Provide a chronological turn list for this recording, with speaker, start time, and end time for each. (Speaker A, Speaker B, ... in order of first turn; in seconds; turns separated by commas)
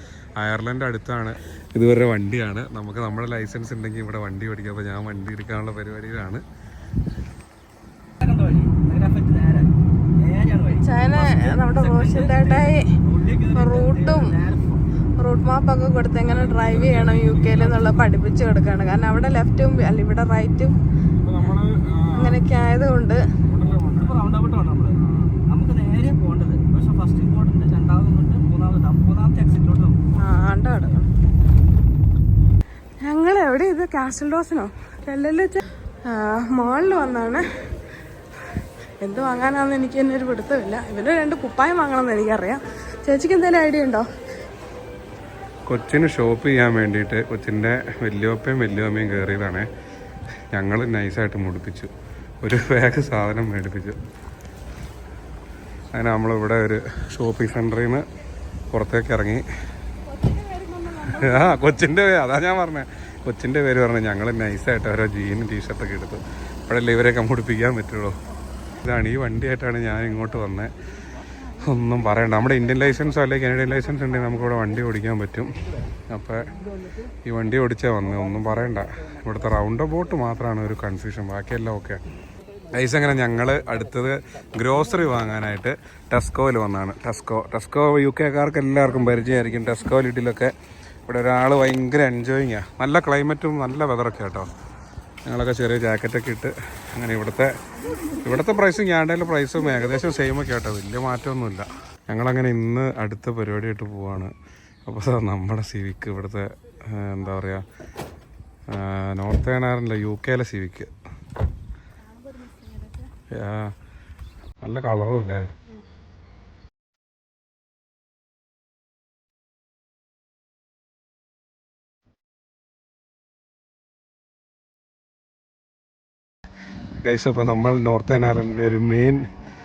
Speaker A: 0.4-6.4, Speaker B: 8.2-14.8, Speaker C: 10.7-12.8, Speaker C: 13.5-14.4, Speaker C: 15.2-20.8, Speaker A: 16.4-17.7, Speaker B: 16.7-17.9, Speaker A: 21.2-22.4, Speaker C: 22.2-23.2, Speaker A: 23.4-24.1, Speaker B: 23.9-30.1, Speaker C: 30.1-31.1, Speaker C: 33.0-37.4, Speaker C: 39.0-44.1, Speaker A: 45.7-49.7, Speaker A: 50.5-51.9, Speaker A: 52.4-54.0, Speaker A: 55.9-58.0, Speaker A: 58.7-59.4, Speaker C: 60.1-61.8, Speaker A: 61.0-68.1, Speaker A: 68.8-70.7, Speaker A: 71.6-75.5, Speaker A: 76.1-76.5, Speaker A: 77.2-82.0, Speaker A: 82.7-90.5, Speaker A: 91.1-94.5, Speaker A: 95.2-97.5, Speaker A: 98.2-104.3, Speaker A: 104.8-107.6, Speaker A: 108.7-110.9, Speaker A: 113.3-113.7, Speaker A: 114.6-115.5, Speaker A: 127.0-129.2